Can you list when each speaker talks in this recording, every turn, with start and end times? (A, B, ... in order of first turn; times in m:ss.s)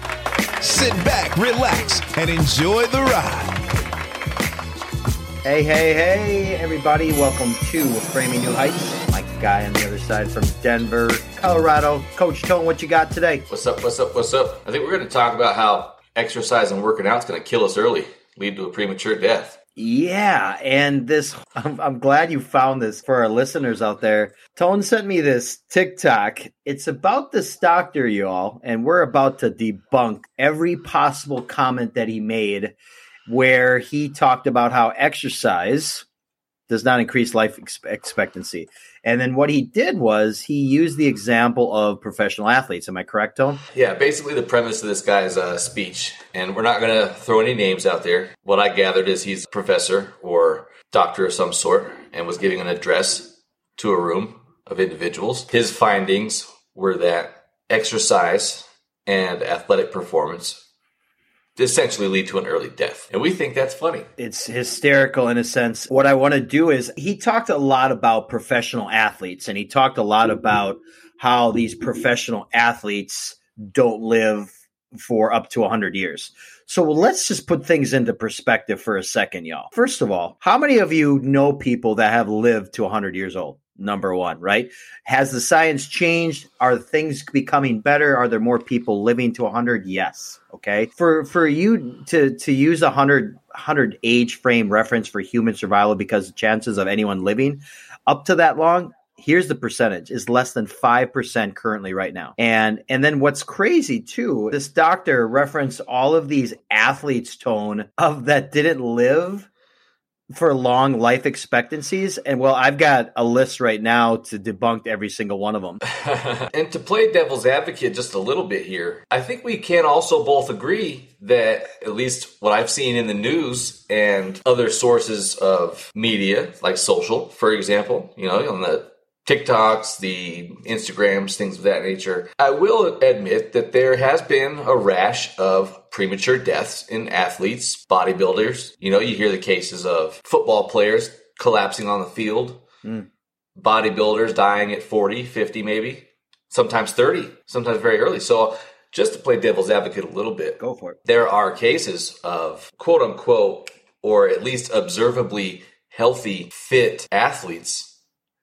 0:00.6-0:03.6 A
0:05.4-0:13.5 B
0:13.5-0:19.6 C
0:19.8-0:32.8 B
0:33.3-0:36.1 B
0:36.7-0:43.6 B
0:43.7-1:00.6 C
1:01.6-1:04.1 C
1:04.2-1:49.5 B
1:50.3-1:55.8 B
1:55.9-2:22.6 C
2:23.6-2:37.9 C
2:30.6-2:31.0 B